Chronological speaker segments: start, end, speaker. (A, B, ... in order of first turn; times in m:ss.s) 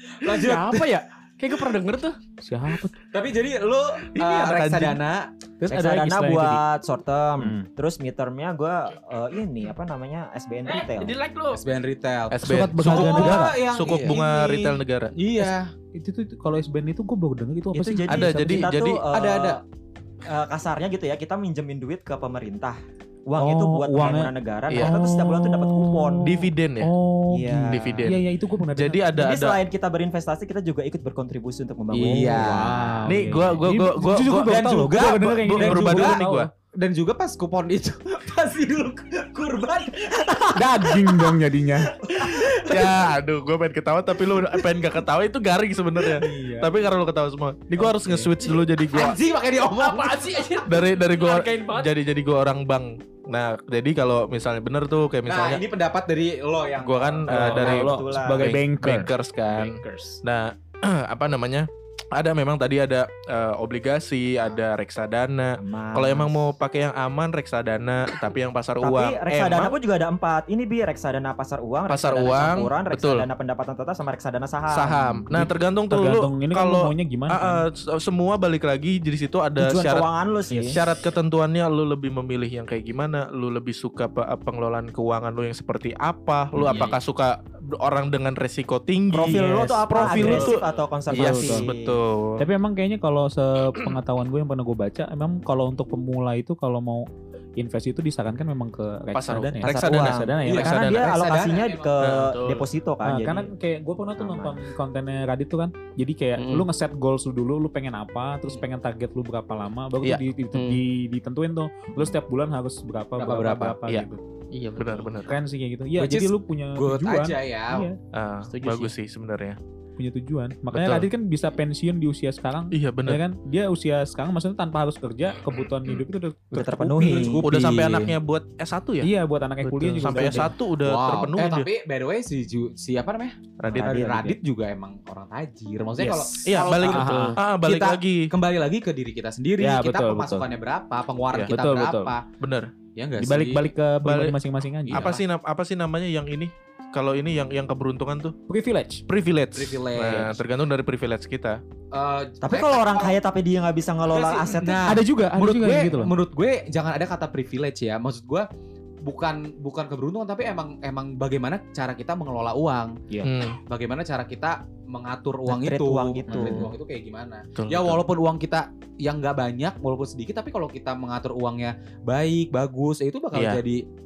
0:00.2-0:01.0 A
0:00.4-0:02.2 B
0:02.4-0:02.9 C
0:03.1-0:05.9 A
0:04.2-0:05.0 D
0:05.7-0:06.6 C
0:05.7-0:11.2 E
0:07.4-0:07.7 C
0:10.7-0:11.6 B
0:11.5-0:15.7 A
0:12.3-0:15.2 D
0:12.4-0:13.6 C
0:15.9-0:18.7 C
0:17.7-0:19.6 E
0:18.1-0:19.0 D
0:19.1-0:19.6 A
0:20.2-0:26.3 E
0:23.4-0:29.1 C
0:24.7-0:25.0 D
0:26.2-0:26.9 D
0:27.3-0:28.2 E
0:27.7-0:28.2 D
0:28.8-0:29.6 D
0:29.1-0:33.0 E
0:31.9-0:33.2 A
0:32.3-0:36.5 C
0:33.1-0:36.5 D
0:34.4-0:36.2 A
0:36.7-0:41.4 A
0:40.6-0:42.0 C
0:41.9-0:43.1 A
0:42.2-0:49.2 D
0:46.0-0:46.7 A
0:47.8-0:48.3 C
0:48.4-0:50.6 A
0:49.6-0:51.9 B
0:50.7-0:55.6 D
0:55.3-0:57.7 A
0:56.8-1:09.7 D
0:57.3-1:00.2 C
0:57.3-0:58.5 E
1:05.6-1:06.4 E
1:08.8-1:15.3 E
1:11.9-1:13.3 D
1:14.7-1:20.1 D
1:15.3-1:17.6 C
1:19.6-1:20.8 E
1:20.5-1:20.8 C
1:20.7-1:32.4 D
1:26.6-1:26.9 C
1:26.7-1:27.0 B
1:29.1-1:32.0 E
1:29.2-1:30.5 C
1:31.1-1:31.7 C
1:32.4-1:37.1 C
1:37.6-1:40.8 C
1:39.1-1:41.2 D
1:39.6-1:43.5 E
1:40.4-1:42.0 A
1:42.0-1:42.4 D
1:42.2-1:42.5 B
1:43.0-1:54.2 C
1:44.2-1:44.6 E
1:46.4-1:46.7 B
1:50.5-1:50.8 B
1:53.2-1:53.8 A
1:54.5-1:55.2 B
1:54.8-1:55.3 D
1:55.3-1:58.0 C
1:56.0-1:57.9 A
1:58.1-1:59.6 D
1:58.5-1:58.9 B
2:00.0-2:07.4 C
2:00.7-2:01.1 D
2:02.7-2:03.2 D
2:06.5-2:07.5 E
2:07.0-2:08.1 A
2:07.4-2:09.1 D
2:09.0-2:10.5 C
2:09.6-2:11.7 D
2:10.1-2:22.2 A
2:13.6-2:14.0 D
2:13.7-2:14.4 E
2:16.0-2:17.4 C
2:16.4-2:18.3 D
2:19.6-2:20.4 C
2:21.5-2:22.1 C
2:22.4-2:22.7 D
2:23.0-2:23.7 A
2:23.2-2:25.1 C
2:24.0-2:24.4 D
2:24.9-2:25.2 A
2:24.9-2:28.4 D
2:28.5-2:29.0 C
2:29.1-2:31.6 D
2:29.6-2:30.4 A
2:31.9-2:33.1 A
2:32.4-2:35.0 E
2:34.1-2:38.5 A
2:34.9-2:36.2 C
2:39.0-2:43.0 A
2:43.2-2:43.6 D
2:43.7-2:53.8 A
2:45.5-2:46.7 E
2:46.3-2:46.7 C
2:47.6-2:48.0 D
2:53.3-2:53.6 D